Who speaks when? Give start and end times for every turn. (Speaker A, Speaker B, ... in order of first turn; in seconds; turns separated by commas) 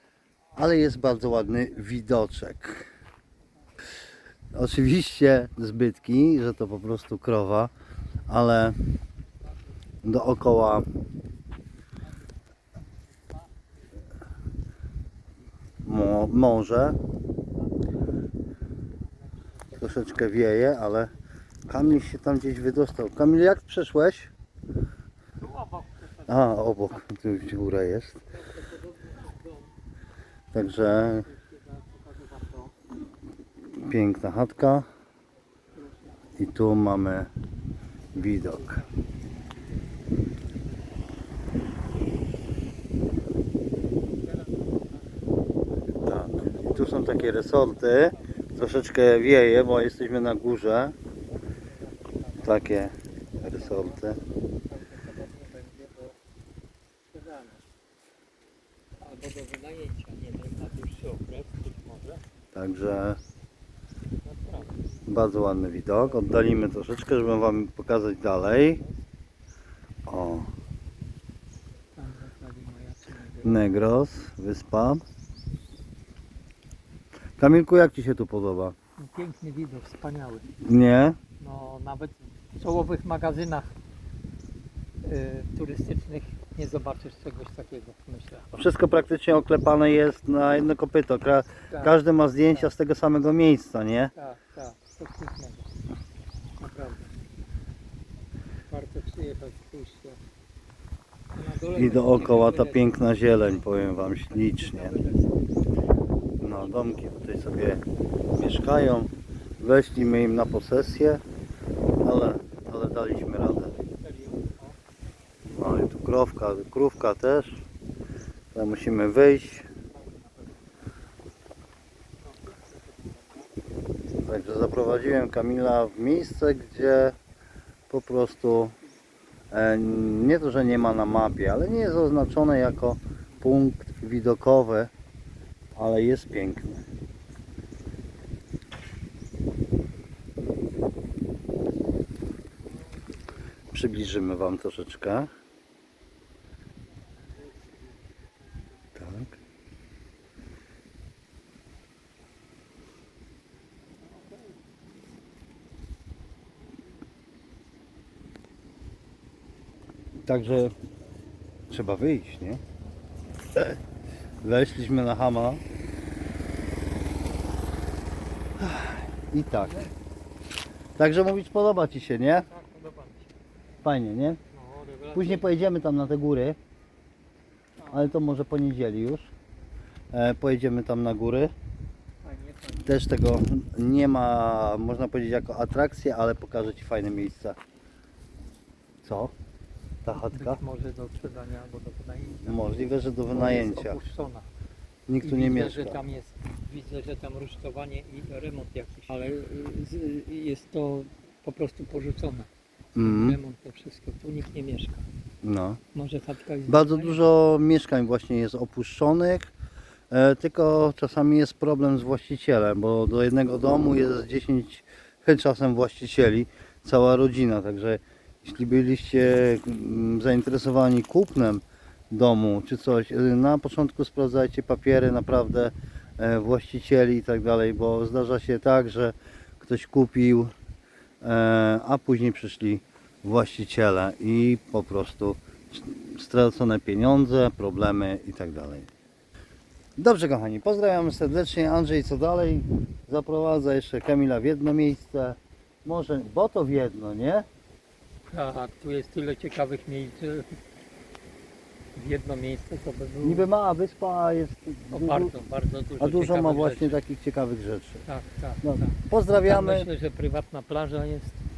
Speaker A: 0.5-2.9, Speaker A: 4.5-7.7, Speaker A: 8.3-8.8, Speaker A: 10.0-10.9, Speaker A: 15.8-17.0, Speaker A: 19.7-21.1, Speaker A: 21.7-24.3, Speaker B: 25.4-26.6, Speaker A: 26.3-28.2, Speaker B: 28.4-29.7, Speaker A: 30.5-31.3, Speaker B: 30.9-32.7, Speaker A: 33.7-34.9, Speaker B: 35.7-36.2, Speaker A: 36.4-37.3, Speaker A: 38.1-38.8, Speaker B: 38.5-38.9, Speaker B: 44.1-45.0, Speaker A: 46.0-50.9, Speaker B: 46.2-48.4, Speaker B: 51.5-52.6, Speaker A: 52.4-54.2, Speaker B: 53.4-56.2, Speaker B: 57.1-57.6, Speaker B: 59.0-62.2, Speaker A: 62.5-63.2, Speaker B: 64.2-64.9, Speaker A: 65.1-68.8, Speaker A: 70.1-70.5, Speaker B: 72.0-73.6, Speaker A: 73.4-75.0, Speaker A: 77.4-78.7, Speaker B: 79.0-80.5, Speaker A: 80.6-81.2, Speaker B: 81.4-83.7, Speaker B: 85.0-88.5, Speaker A: 88.5-94.1, Speaker B: 91.7-92.0, Speaker B: 94.1-95.7, Speaker B: 96.6-97.2, Speaker B: 98.7-100.2, Speaker B: 101.3-103.0, Speaker A: 101.7-104.9, Speaker B: 104.3-105.6, Speaker A: 106.4-107.8, Speaker A: 108.3-111.2, Speaker A: 112.0-113.7, Speaker B: 113.6-114.8, Speaker A: 115.5-117.6, Speaker A: 118.5-119.7, Speaker B: 119.6-120.6, Speaker B: 122.2-123.5, Speaker A: 124.2-127.1, Speaker A: 127.9-128.7, Speaker A: 129.5-134.9, Speaker A: 135.8-136.8, Speaker A: 143.7-145.3, Speaker B: 147.4-147.8, Speaker A: 148.9-149.4, Speaker B: 154.2-154.5, Speaker A: 160.2-160.7, Speaker A: 161.7-162.6, Speaker A: 164.4-165.6, Speaker A: 168.6-169.9, Speaker A: 171.0-172.5, Speaker B: 172.4-173.3, Speaker A: 173.8-174.4, Speaker B: 174.5-175.5, Speaker A: 175.1-176.6, Speaker B: 177.8-178.1, Speaker A: 177.9-179.3, Speaker A: 180.1-181.5, Speaker B: 182.2-183.0, Speaker A: 182.8-187.6, Speaker A: 189.0-189.3, Speaker A: 190.0-190.6, Speaker B: 190.1-194.4, Speaker A: 192.4-194.0, Speaker A: 195.1-196.0, Speaker B: 195.2-205.1, Speaker A: 202.9-203.4, Speaker A: 205.4-205.8, Speaker B: 205.9-207.2, Speaker A: 206.7-209.5, Speaker A: 210.1-230.5, Speaker A: 231.2-238.9, Speaker A: 240.0-247.4, Speaker B: 248.3-250.6, Speaker B: 251.9-253.5, Speaker A: 253.2-255.3, Speaker B: 254.9-257.0, Speaker A: 256.0-258.0, Speaker B: 258.0-261.4, Speaker A: 258.6-259.9